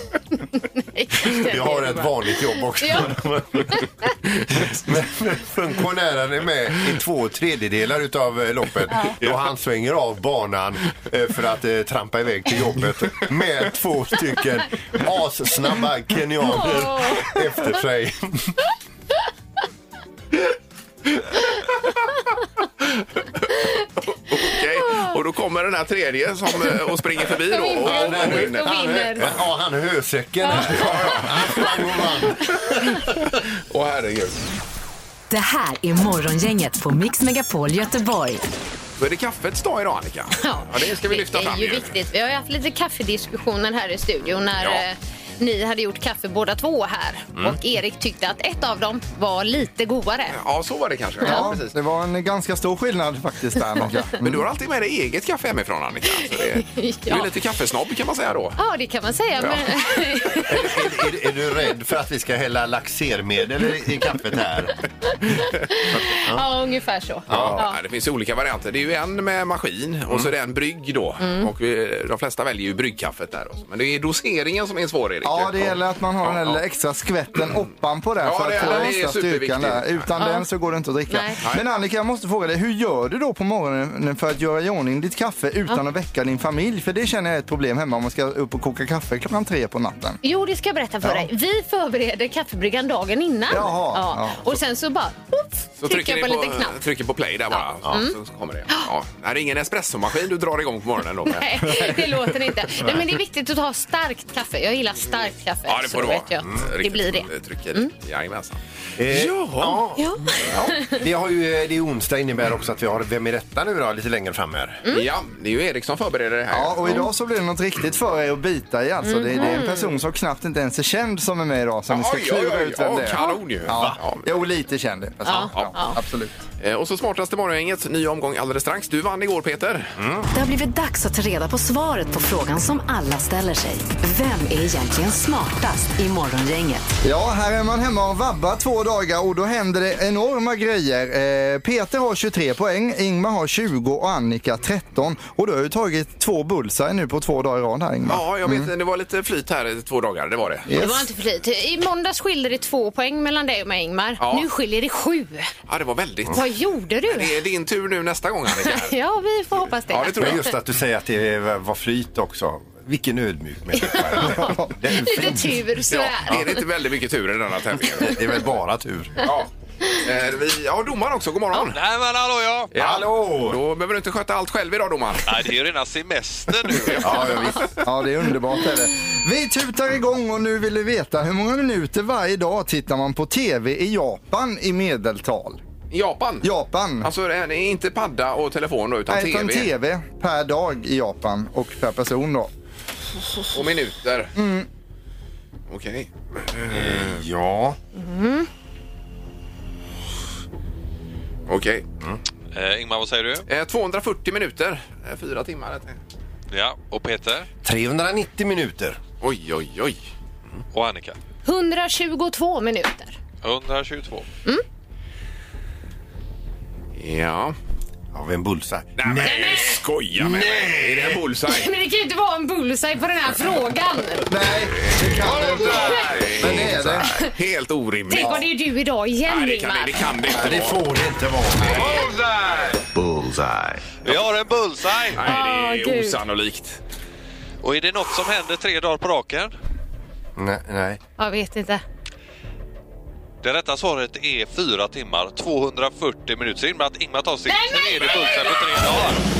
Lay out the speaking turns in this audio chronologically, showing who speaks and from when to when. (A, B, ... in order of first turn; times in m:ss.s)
0:00.7-0:03.8 A
0:01.2-0:03.8 B
0:04.5-0:18.5 B
0:16.5-0:17.3 A
0:22.8-0:23.4 C
0:24.1-0:28.7 C
0:24.4-0:25.2 A
0:27.5-0:29.3 A
0:27.7-0:33.1 B
0:30.4-0:30.9 A
0:30.5-0:31.7 C
0:33.1-0:34.4 C
0:35.3-0:38.4 D
0:39.0-0:41.9 C
0:40.4-0:50.4 A
0:44.6-0:44.8 C
0:50.3-0:51.7 C
0:51.2-0:51.5 A
0:51.2-0:54.4 E
0:54.2-0:58.6 C
0:56.2-0:57.3 A
0:58.6-1:00.7 A
0:59.4-0:59.7 C
1:00.4-1:04.8 B
1:05.3-1:07.8 A
1:05.9-1:06.5 B
1:07.3-1:07.6 B
1:07.3-1:16.6 C
1:11.2-1:11.5 A
1:15.2-1:30.2 E
1:18.2-1:20.1 C
1:18.6-1:18.9 A
1:20.2-1:20.5 A
1:21.1-1:21.4 A
1:30.2-1:36.8 A
1:31.0-1:31.3 E
1:33.5-1:34.5 E
1:35.8-1:41.8 C
1:37.5-1:38.1 A
1:41.2-1:47.9 A
1:45.7-1:48.6 C
1:49.0-1:50.1 B
1:49.1-1:49.8 C
1:50.0-1:51.0 A
1:50.4-1:50.7 C
1:50.8-1:54.8 B
1:54.9-1:57.0 C
1:56.5-2:06.4 E
1:59.0-2:00.0 A
2:01.9-2:04.3 C
2:03.7-2:04.0 B
2:05.2-2:06.0 A
2:06.6-2:09.9 C
2:10.0-2:10.3 B
2:10.3-2:16.9 D
2:17.0-2:28.7 E
2:28.0-2:30.7 C
2:30.7-2:31.1 E
2:30.7-2:35.5 A
2:34.2-2:34.5 C
2:35.7-2:36.4 C
2:36.3-2:37.3 A
2:37.0-2:38.9 C
2:38.6-2:40.5 A
2:39.9-2:40.4 C
2:40.2-2:45.6 B
2:43.7-2:46.6 A
2:45.9-2:48.1 C
2:47.9-2:49.1 B
2:49.2-2:49.5 C
2:50.0-2:51.8 C
2:51.7-2:52.7 F
2:52.7-2:55.4 C
2:52.7-2:53.6 B
2:55.2-2:57.2 F
2:56.8-2:57.5 C
2:57.0-2:57.7 B
2:57.8-3:05.6 E
3:05.9-3:06.5 C
3:06.4-3:07.1 E
3:07.0-3:09.7 C
3:09.1-3:12.5 E
3:13.5-3:14.3 C
3:14.4-3:14.7 E
3:15.7-3:17.2 C
3:16.6-3:17.8 B
3:17.9-3:18.5 A
3:21.5-3:21.9 C
3:22.5-3:23.4 F
3:23.5-3:26.0 C
3:26.5-3:27.5 F
3:27.6-3:29.0 B
3:29.2-3:30.0 C
3:30.7-3:31.2 F
3:31.4-3:33.2 A
3:33.4-3:34.3 F
3:37.0-3:37.5 C
3:38.1-3:41.2 B
3:39.0-3:41.7 C
3:39.2-3:39.8 A
3:41.5-3:44.3 A
3:44.3-3:47.1 E
3:44.4-3:48.4 C
3:45.8-3:46.3 A
3:46.4-3:47.1 B
3:47.0-3:47.3 A
3:48.1-3:50.1 A
3:49.3-3:50.8 C
3:50.3-3:52.0 B
3:51.6-3:52.1 C
3:53.0-3:53.8 B
3:54.0-3:55.3 F
3:55.1-3:56.8 C
3:55.2-3:56.2 A
3:57.6-3:59.5 F
4:00.4-4:01.0 B
4:01.2-4:01.8 A
4:03.4-4:09.2 F
4:07.4-4:08.7 A